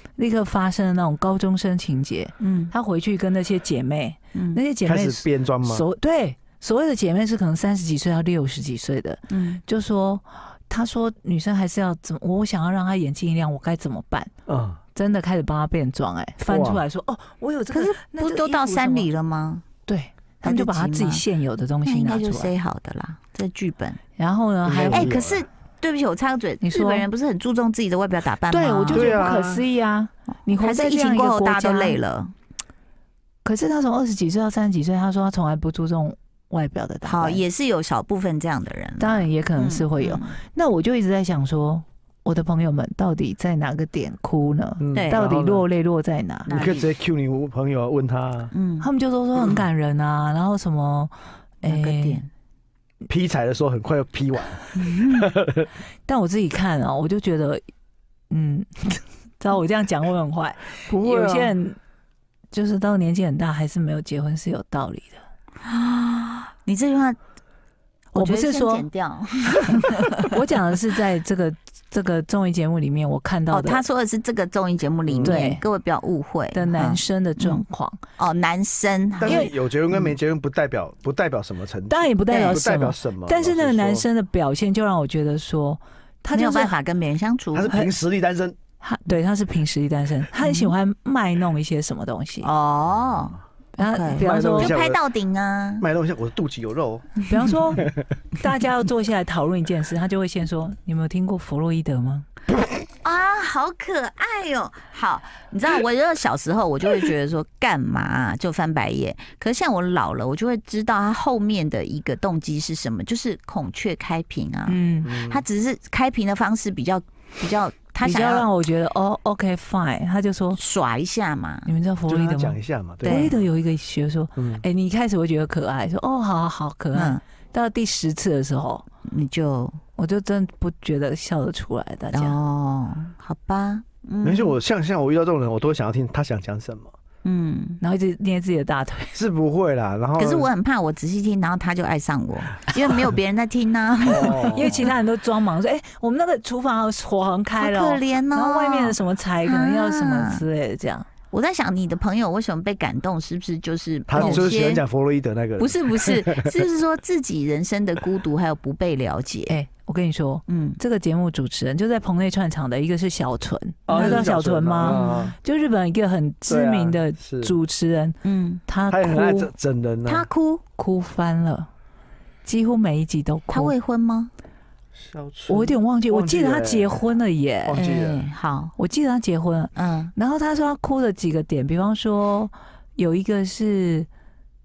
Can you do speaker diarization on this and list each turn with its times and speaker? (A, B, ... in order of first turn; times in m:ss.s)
0:00.2-0:14.3 A
0:02.4-0:02.7 B
0:04.3-0:04.6 B
0:04.8-0:05.9 C
0:09.3-0:09.6 B
0:14.5-0:14.8 C
0:15.0-0:19.1 A
0:16.5-0:16.8 C
0:17.7-0:19.6 B
0:19.9-0:22.5 A
0:20.4-0:21.2 B
0:21.8-0:24.0 B
0:24.2-0:25.1 A
0:24.6-0:25.4 C
0:24.8-0:29.2 B
0:26.6-0:27.0 A
0:28.5-0:32.0 A
0:28.9-0:29.7 C
0:30.6-0:32.3 B
0:33.4-0:37.4 A
0:37.0-0:40.4 B
0:39.0-0:46.5 A
0:44.8-0:45.7 C
0:44.9-0:45.2 B
0:46.5-0:46.9 B
0:46.5-0:48.5 C
0:48.5-0:48.9 B
0:48.8-0:52.2 A
0:51.6-0:52.3 B
0:53.1-0:55.7 C
0:54.8-0:55.3 B
0:56.1-0:57.6 A
0:58.3-1:01.8 A
1:00.9-1:01.6 C
1:02.5-1:05.2 A
1:05.6-1:07.2 B
1:08.1-1:10.3 B
1:08.1-1:08.9 A
1:10.2-1:13.8 A
1:13.5-1:17.6 B
1:15.1-1:15.4 C
1:15.2-1:15.6 A
1:16.5-1:18.0 A
1:18.2-1:19.5 B
1:19.2-1:24.1 C
1:19.2-1:19.5 A
1:21.9-1:26.8 A
1:22.3-1:22.6 B
1:26.3-1:27.7 B
1:27.5-1:28.6 C
1:28.8-1:32.5 A
1:30.4-1:30.7 B
1:32.4-1:35.8 B
1:33.8-1:34.8 A
1:34.2-1:35.0 C
1:35.8-1:37.1 C
1:37.3-1:42.3 A
1:43.0-1:58.5 B
1:54.7-1:55.1 A
1:55.0-1:55.4 C
1:58.0-2:00.6 A
2:00.6-2:01.7 B
2:01.6-2:08.9 A
2:02.1-2:03.4 C
2:03.0-2:03.4 B
2:04.4-2:04.6 C
2:06.9-2:07.2 B
2:09.1-2:09.8 B
2:10.0-2:12.4 A
2:12.1-2:14.6 B
2:14.2-2:16.9 C
2:17.2-2:17.8 B
2:17.8-2:19.2 A
2:19.2-2:20.5 C
2:20.2-2:24.9 B
2:24.0-2:24.9 C
2:24.1-2:31.1 A
2:27.6-2:30.4 B
2:31.3-2:34.8 B
2:34.1-2:36.6 C
2:34.2-2:34.5 A
2:35.6-2:39.6 B
2:39.5-2:48.2 A
2:40.5-2:40.8 B
2:43.9-2:45.4 C
2:43.9-2:44.2 B
2:44.8-2:45.3 B
2:46.5-2:47.6 C
2:48.2-2:48.6 B
2:48.7-2:49.5 A
2:48.9-2:50.2 C
2:50.1-2:50.6 B
2:50.8-2:51.7 A
2:52.4-2:53.7 A
2:53.5-2:54.3 B
2:55.0-2:57.0 C
2:55.5-2:57.9 A
2:57.6-2:58.2 C
2:57.8-2:58.7 B
2:58.8-3:04.1 A
2:59.8-3:00.1 B